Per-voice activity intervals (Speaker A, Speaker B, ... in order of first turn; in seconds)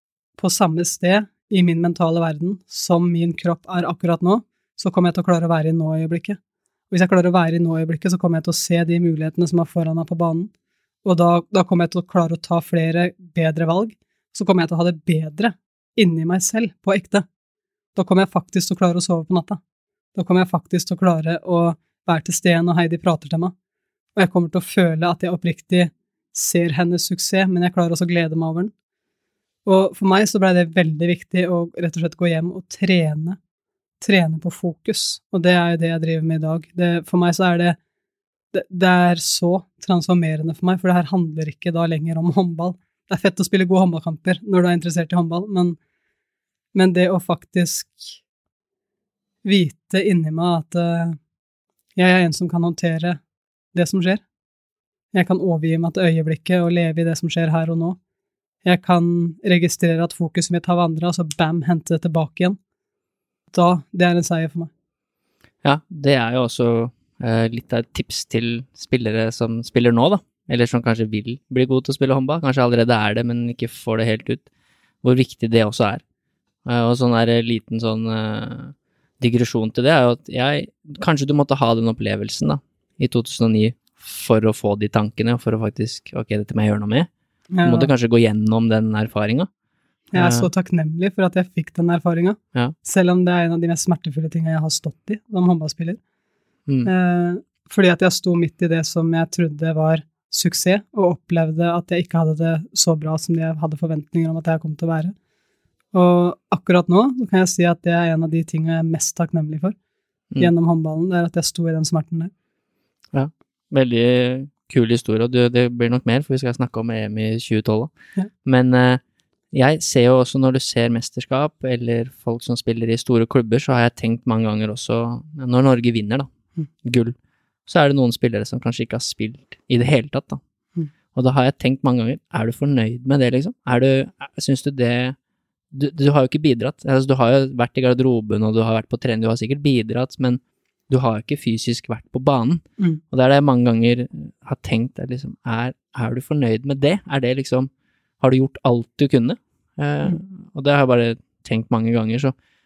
Speaker A: 0.4-6.4, 6.9-10.5, 11.0-17.2, 17.9-19.6, 20.1-23.5, 24.1-28.7, 29.6-33.4, 34.0-37.8, 38.5-45.8, 46.7-48.2, 49.4-51.2, 52.0-53.2, 53.7-54.2, 55.1-58.0, 58.6-62.6, 63.5-64.7, 87.5-87.9, 90.1-96.0, 96.8-105.2, 105.9-109.7, 110.4-112.3
Speaker B: 65.6-74.5, 75.0-76.0, 76.6-87.1, 87.6-89.5, 90.2-90.5, 113.1-117.9, 118.4-126.3, 126.8-127.1, 127.7-130.4, 131.1-135.2, 135.7-152.3